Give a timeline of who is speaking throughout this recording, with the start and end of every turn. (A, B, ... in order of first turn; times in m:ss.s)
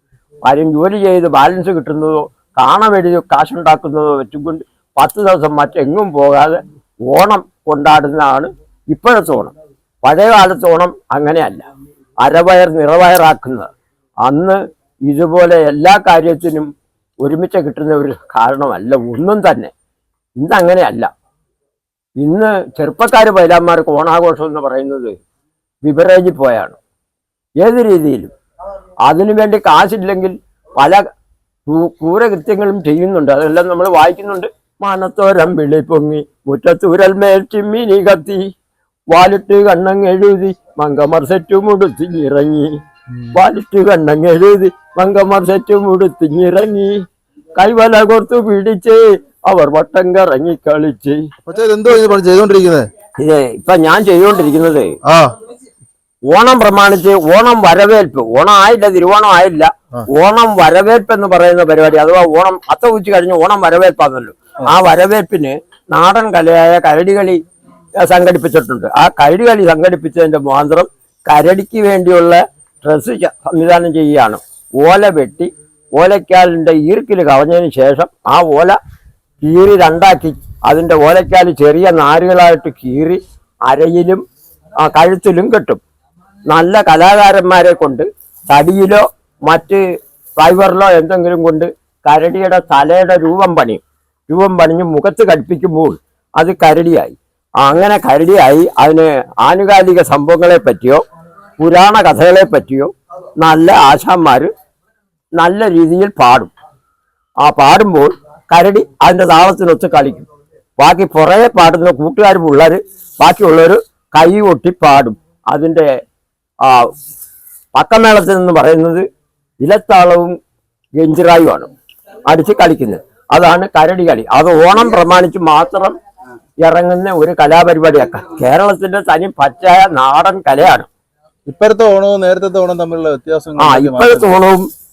0:00.4-0:11.7 A
0:12.2-0:13.7 A
0:14.2-0:16.7 A
0:17.2-0:19.7 A
0:20.4-0:21.1 A
0:22.2-0:25.2 A
0:25.8-0:26.8 A
0:27.6-0:28.3 A
0:29.1-0:31.0 A
0:31.7-0:38.5 A
0:39.1-0:42.8 A
0:43.3-0:47.0 A
0:47.6-0:51.2 A
0:51.4-0:52.9 B
0:53.2-0:55.0 A
0:55.0-0:55.3 B
0:56.3-1:07.4 A
1:08.0-1:18.8 A
1:19.4-1:24.2 A
1:24.8-1:25.8 A
1:26.5-1:29.8 A
1:30.4-1:41.0 A
1:41.6-1:44.5 A
1:45.4-1:46.5 A
1:47.4-1:55.9 A
1:56.6-1:56.9 A
1:57.8-1:59.0 A
1:59.6-2:00.4 A
2:01.0-2:01.7 A
2:02.3-2:06.0 A
2:06.6-2:10.9 A
2:11.5-2:14.4 B
2:13.6-2:14.7 A